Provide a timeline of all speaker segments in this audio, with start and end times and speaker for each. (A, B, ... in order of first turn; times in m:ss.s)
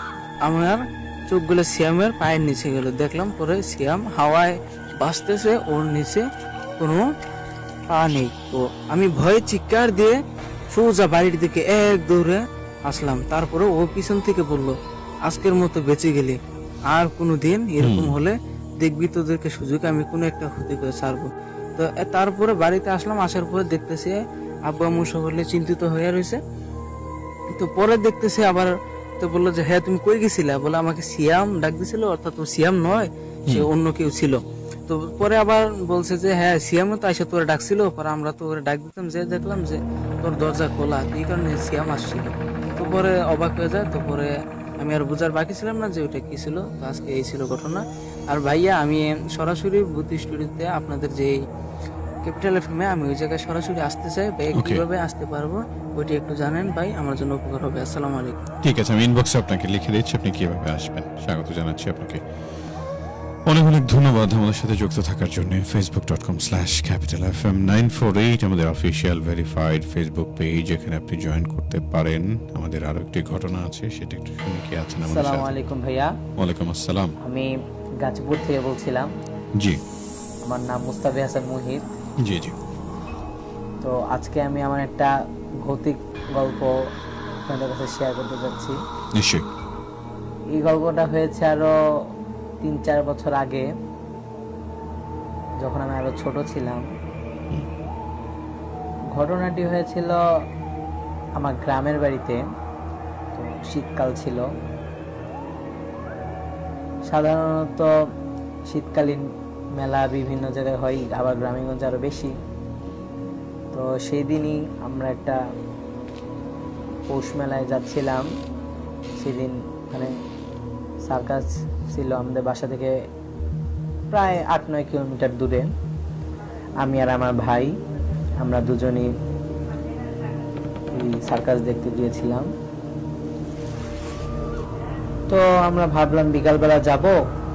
0:00.4-0:06.3 A
0:06.8-0:07.1 A
0:07.9-0:10.2 A
0:10.7-0:14.8 A
0:15.3-0:16.4 A
0:16.9-0:26.4 A
0:17.8-0:18.2 B
0:27.6-0:51.4 A
0:52.2-0:58.5 A
0:54.6-0:54.8 B
0:58.6-1:02.2 B
1:03.5-1:15.5 B
1:15.0-1:16.2 C
1:16.4-1:17.1 B
1:17.2-1:19.1 C
1:20.4-1:21.9 C
1:22.2-1:22.6 B
1:23.8-1:26.8 C
1:27.5-1:28.8 C
1:29.2-1:29.5 B
1:30.5-1:31.8 C
1:32.6-1:33.7 C
1:35.6-1:36.8 C
1:39.1-1:40.2 C
1:41.4-1:42.4 C
1:43.3-1:44.5 C
1:47.1-1:47.9 C
1:48.7-1:52.4 C
1:53.7-1:55.4 C
1:57.1-1:58.3 C
1:59.2-2:00.1 C
2:01.0-2:03.0 C
2:04.1-2:05.7 C
2:06.8-2:07.8 C
2:08.4-2:09.2 C
2:10.9-2:12.5 C
2:15.3-2:17.2 C